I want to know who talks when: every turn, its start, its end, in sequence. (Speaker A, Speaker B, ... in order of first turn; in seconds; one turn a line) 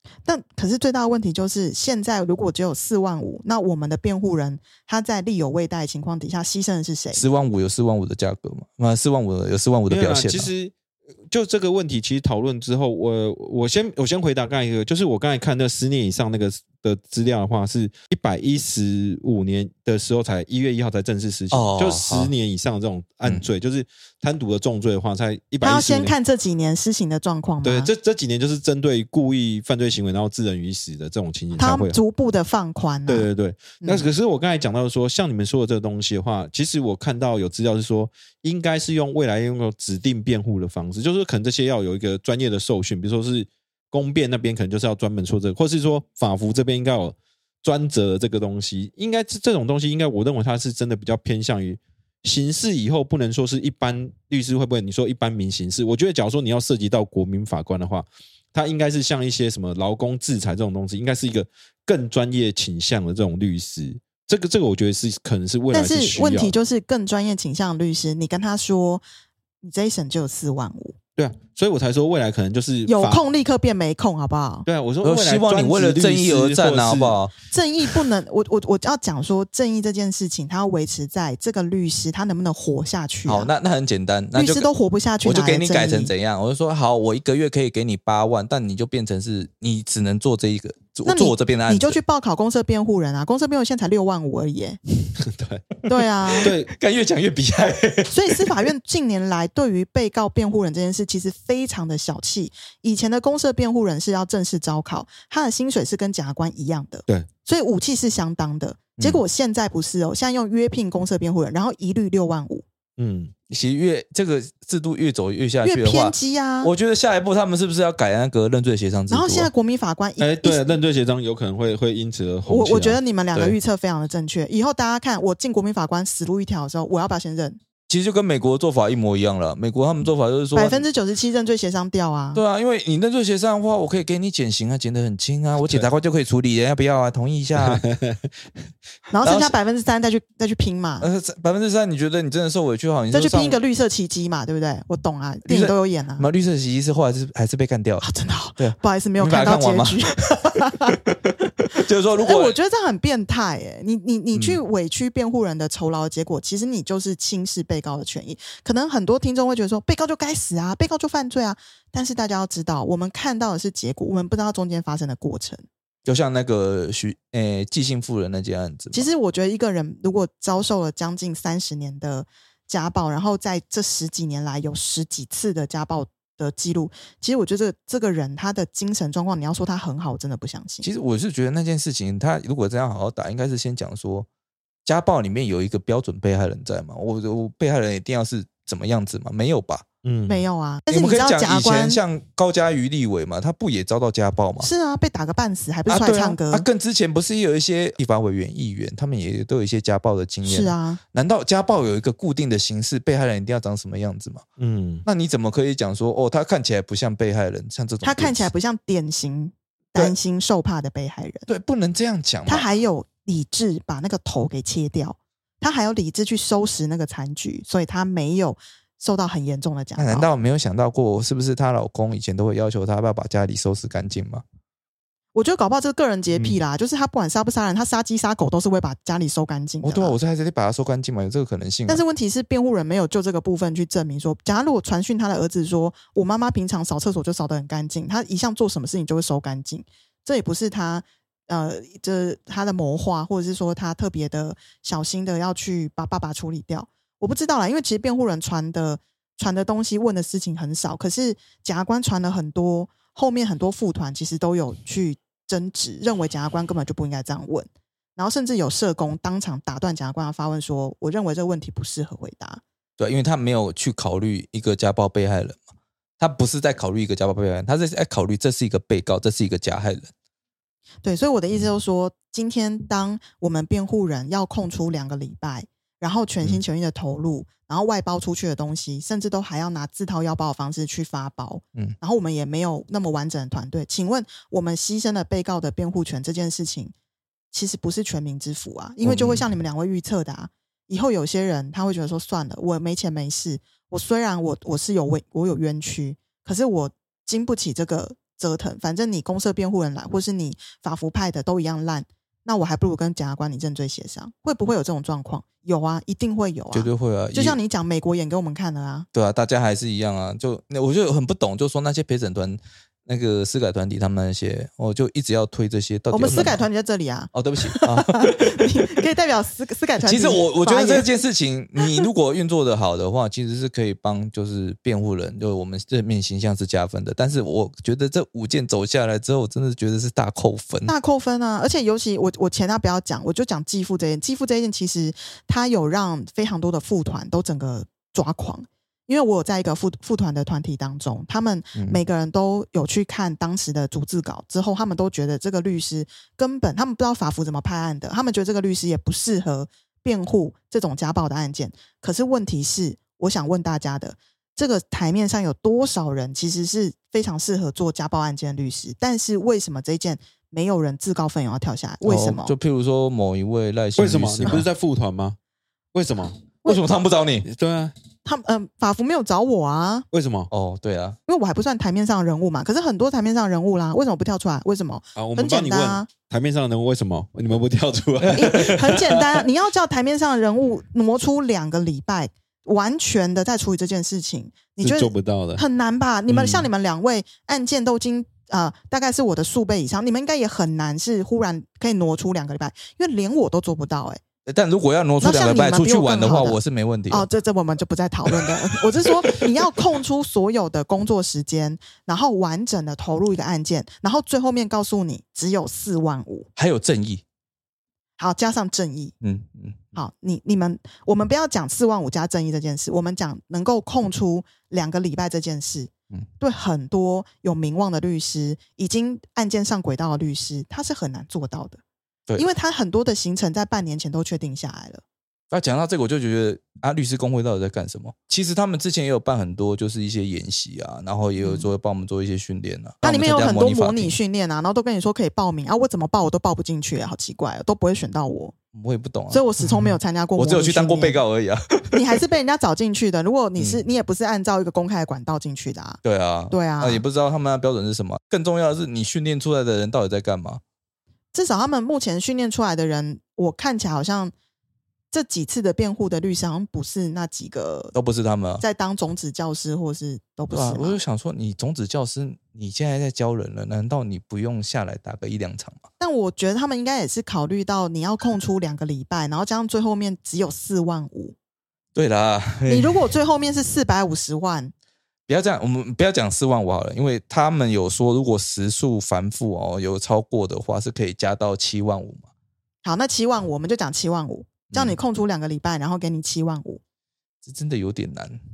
Speaker A: 0.2-7.2
Speaker B: 7.1-10.5
Speaker C: 9.9-10.7
Speaker C: 11.3-26.1
Speaker B: 21.5-22.3
Speaker A: 25.6-27.9
Speaker C: 27.6-32.0
Speaker A: 31.6-33.3
Speaker C: 33.1-66.5
Speaker A: 33.8-34.1
Speaker A: 65.7-69.0
Speaker A: 69.6-71.0
Speaker C: 71.2-73.2
Speaker A: 72.8-74.7
Speaker C: 74.7-77.2
Speaker B: 75.0-77.3
Speaker A: 77.5-83.5
Speaker B: 83.2-84.7
Speaker A: 84.3-86.1
Speaker B: 85.2-92.0
Speaker A: 91.0-94.8
Speaker C: 95.2-95.6
Speaker A: 95.9-96.5
Speaker B: 96.3-98.6
Speaker C: 96.4-96.7
Speaker A: 98.1-112.6
Speaker C: 113.0-113.3
Speaker B: 113.5-119.5
Speaker A: 115.6-116.7
Speaker A: 119.1-120.6
Speaker C: 120.2-123.0
Speaker A: 122.5-127.6
Speaker B: 127.9-130.8
Speaker A: 130.5-132.4
Speaker B: 132.3-137.8
Speaker C: 137.6-138.3
Speaker A: 139.1-141.1
Speaker B: 139.2-139.5
Speaker B: 141.0-143.6
Speaker A: 143.1-146.2
Speaker B: 145.4-152.6
Speaker A: 148.0-151.0
Speaker A: 151.7-165.7
Speaker B: 166.0-169.1
Speaker A: 168.9-180.9
Speaker B: 180.8-184.3
Speaker B: 184.8-189.8
Speaker C: 190.0-190.4
Speaker A: 190.3-192.0
Speaker B: 190.9-194.7
Speaker A: 194.6-196.7
Speaker B: 195.9-204.4
Speaker A: 200.4-201.0
Speaker C: 204.6-205.0
Speaker B: 205.0-208.5
Speaker A: 208.0-211.4
Speaker B: 211.5-212.7
Speaker A: 212.4-220.3
Speaker B: 220.0-224.4
Speaker A: 225.3-230.2
Speaker B: 229.8-232.0
Speaker A: 231.9-262.6
Speaker B: 263.0-265.6
Speaker B: 266.2-270.1
Speaker A: 271.0-286.9
Speaker A: 287.5-309.1
Speaker B: 289.0-289.4
Speaker B: 306.7-307.6
Speaker B: 309.1-316.6
Speaker A: 316.1-321.1
Speaker B: 317.3-318.8
Speaker B: 320.0-330.9
Speaker A: 321.8-322.1
Speaker A: 330.9-362.5
Speaker B: 341.8-342.0
Speaker B: 362.0-364.6
Speaker C: 364.0-365.4
Speaker C: 365.9-366.4
Speaker B: 366.6-367.5
Speaker C: 367.4-367.9
Speaker A: 368.2-370.1
Speaker C: 370.1-370.5
Speaker B: 370.5-371.2
Speaker A: 371.3-376.1
Speaker C: 375.1-378.9
Speaker B: 378.2-379.0
Speaker A: 378.3-394.2
Speaker C: 384.8-385.6
Speaker B: 394.4-397.3
Speaker A: 395.2-406.5
Speaker B: 398.3-399.5
Speaker B: 406.6-407.2
Speaker A: 408.2-409.1
Speaker B: 409.2-409.9
Speaker A: 409.9-421.8
Speaker A: 422.4-425.0
Speaker B: 425.5-434.1
Speaker A: 431.4-431.7
Speaker A: 433.0-438.5
Speaker B: 438.7-442.2
Speaker A: 439.3-441.2
Speaker A: 441.9-447.0
Speaker B: 443.6-443.8
Speaker B: 446.0-450.6
Speaker A: 451.3-454.3
Speaker A: 455.1-457.9
Speaker B: 457.9-458.6
Speaker A: 458.6-461.0
Speaker B: 460.5-465.8
Speaker A: 466.0-471.3
Speaker B: 471.9-473.0
Speaker A: 472.7-474.7
Speaker B: 475.3-482.3
Speaker A: 482.8-486.8
Speaker B: 484.7-485.0
Speaker B: 487.4-488.4